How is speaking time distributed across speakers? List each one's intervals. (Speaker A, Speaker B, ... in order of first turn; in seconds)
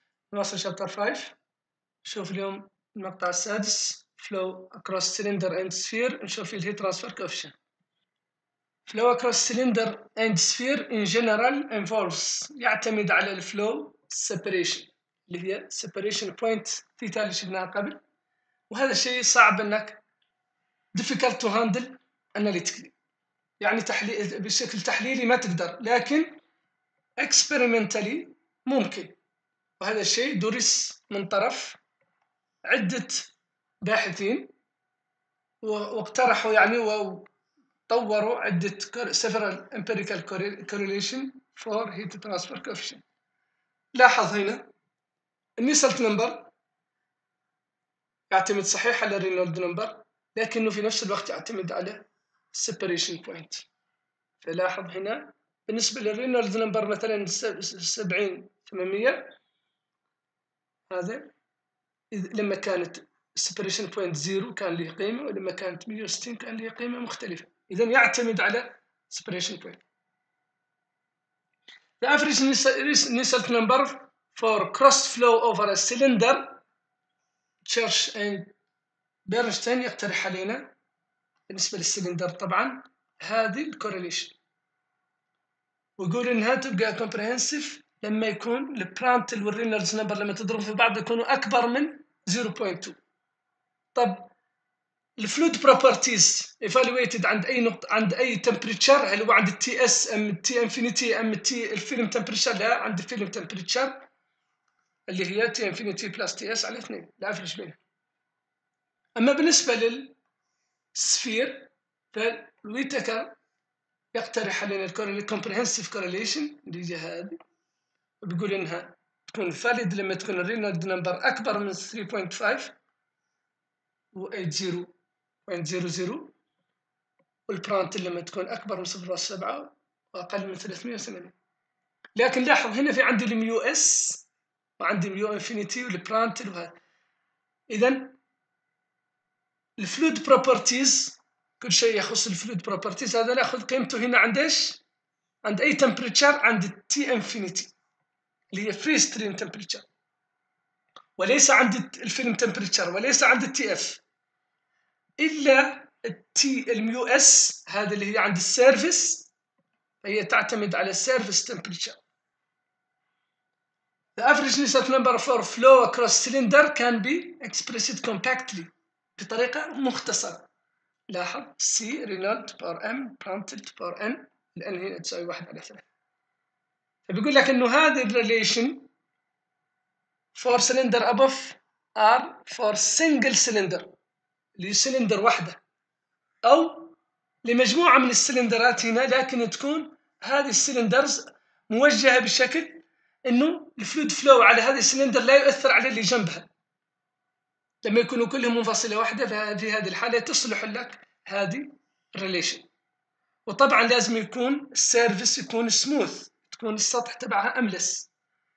Speaker A: 0.3-1.4, 2.0-7.6, 8.9-18.0, 18.7-20.0, 20.9-22.9, 23.6-26.4, 27.2-29.2, 29.8-31.8, 32.6-33.3, 33.8-34.5, 35.6-37.3, 37.9-43.0, 44.0-44.7, 45.6-46.5, 48.3-53.7, 54.4-59.3, 60.9-61.3, 62.1-69.8, 72.0-76.6, 77.6-78.5, 79.3-80.7, 81.5-84.4, 86.0-93.0, 93.9-94.3, 95.2-104.1, 105.1-107.8, 109.2-110.2, 110.9-113.3, 114.1-117.4, 118.2-122.8, 124.1-124.9, 125.5-126.3, 127.5-131.4, 132.2-134.3, 134.8-136.8, 137.7-138.2, 139.8-144.8, 145.4-147.7, 148.5-149.9, 151.2-154.0, 155.2-159.3, 160.0-162.0, 164.2-170.5, 171.1-175.9, 177.1-178.9, 180.3-183.9, 184.6-185.6, 186.4-196.5, 197.8-202.7, 203.5-208.1